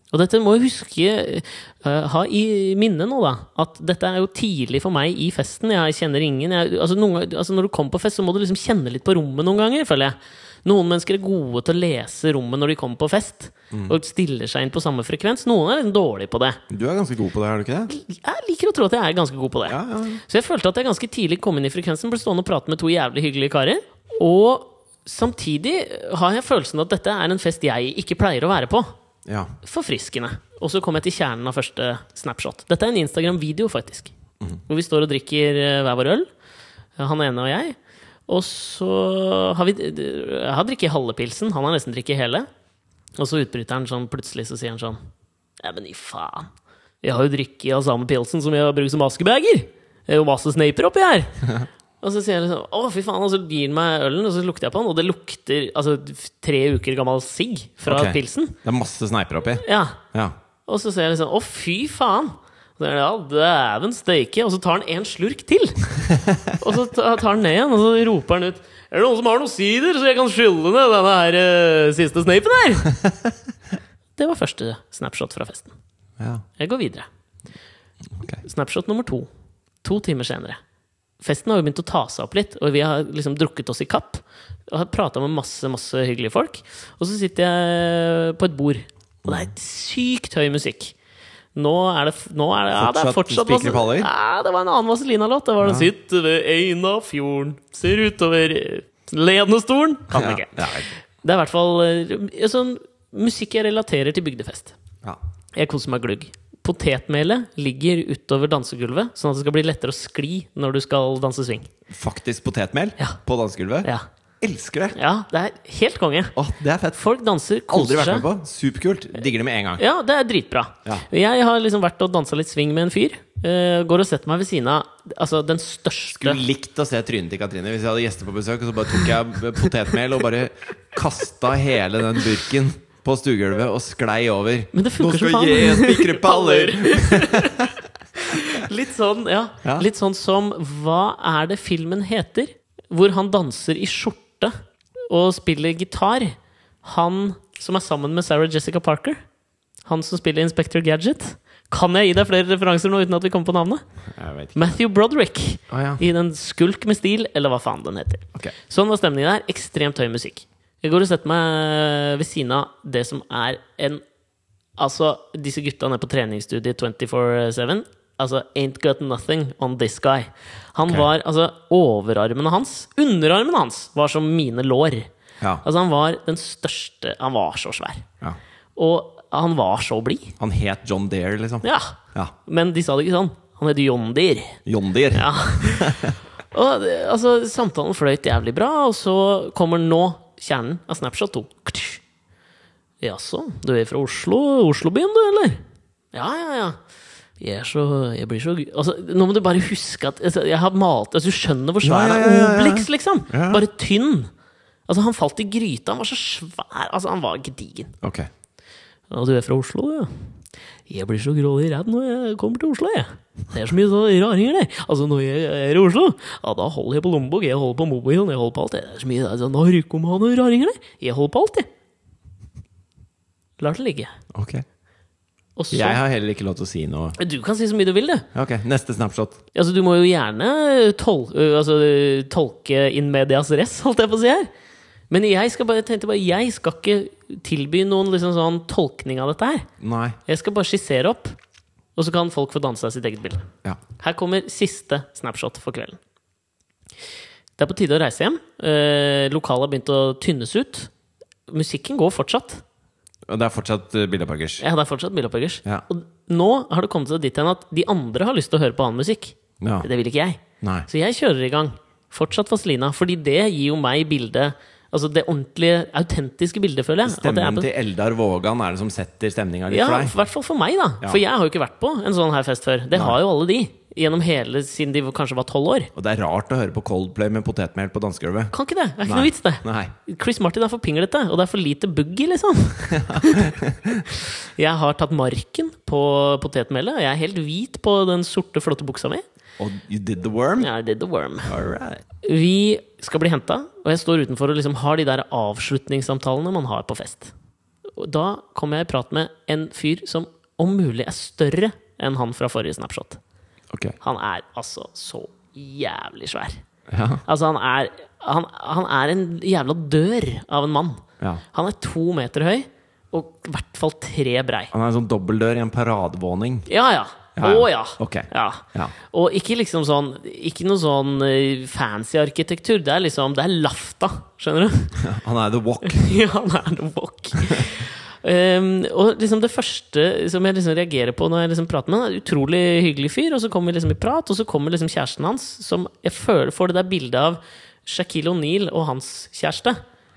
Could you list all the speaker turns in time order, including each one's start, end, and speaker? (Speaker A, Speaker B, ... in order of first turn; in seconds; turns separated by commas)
Speaker A: 0.1-16.6, Speaker B: 16.7-17.9, Speaker A: 17.9-28.9, Speaker B: 19.7-20.2, Speaker B: 29.2-29.5, Speaker A: 29.6-34.1, Speaker A: 34.7-36.3, Speaker A: 37.0-42.5, Speaker A: 43.2-45.0, Speaker A: 45.6-46.5, Speaker A: 47.0-51.3, Speaker A: 52.0-58.5, Speaker B: 57.9-60.4, Speaker A: 59.6-60.0, Speaker A: 60.6-65.9, Speaker B: 66.1-66.4, Speaker A: 66.6-72.9, Speaker A: 74.2-75.7, Speaker B: 76.2-76.5, Speaker A: 76.6-77.1, Speaker A: 78.4-79.3, Speaker A: 79.8-80.6, Speaker A: 81.2-90.9, Speaker B: 89.2-89.5, Speaker A: 91.5-100.7, Speaker B: 92.7-94.1, Speaker B: 95.6-95.9, Speaker B: 100.1-100.9, Speaker A: 101.2-104.7, Speaker A: 105.5-111.7, Speaker B: 111.9-113.9, Speaker B: 114.4-115.0, Speaker A: 114.9-116.3, Speaker B: 116.3-117.0, Speaker A: 117.0-118.2, Speaker B: 117.7-119.8, Speaker A: 119.8-126.4, Speaker B: 126.1-137.7, Speaker A: 134.7-144.5, Speaker A: 145.1-149.2, Speaker A: 149.8-153.8, Speaker B: 154.1-154.7, Speaker A: 154.5-164.0, Speaker B: 155.7-156.0, Speaker A: 164.8-175.1, Speaker A: 175.6-178.1, Speaker A: 178.8-180.3, Speaker B: 180.4-182.3, Speaker A: 181.6-184.6, Speaker B: 184.7-186.1, Speaker A: 185.1-192.0, Speaker A: 193.0-195.6, Speaker A: 196.1-196.8, Speaker A: 197.4-204.3, Speaker B: 201.8-203.6, Speaker A: 204.9-207.9, Speaker B: 208.0-208.3, Speaker A: 209.1-210.1, Speaker A: 210.9-221.7, Speaker A: 223.6-224.1, Speaker B: 224.3-224.6, Speaker A: 225.6-226.0, Speaker B: 225.7-227.2, Speaker A: 227.2-228.2, Speaker B: 228.3-229.4, Speaker A: 229.5-234.5, Speaker A: 235.1-239.7, Speaker B: 239.8-240.2, Speaker A: 240.2-241.3, Speaker A: 241.9-243.4, Speaker A: 244.0-246.0, Speaker A: 247.6-250.9, Speaker A: 251.5-252.6, Speaker B: 253.3-254.6, Speaker A: 254.6-267.7, Speaker B: 259.6-259.9, Speaker B: 260.6-260.9, Speaker B: 267.0-270.1, Speaker A: 269.7-275.9, Speaker B: 275.9-278.5, Speaker A: 278.5-283.6, Speaker B: 279.0-279.9, Speaker B: 282.9-284.0, Speaker A: 284.1-289.2, Speaker B: 289.6-290.7, Speaker A: 290.6-291.5, Speaker B: 291.4-292.0, Speaker A: 292.2-297.3, Speaker A: 298.0-303.2, Speaker B: 303.7-304.0, Speaker A: 304.0-306.6, Speaker B: 306.9-307.2, Speaker A: 307.2-314.7, Speaker B: 314.7-316.7, Speaker A: 316.7-325.0, Speaker B: 317.4-318.9, Speaker B: 325.0-326.1, Speaker A: 325.8-339.8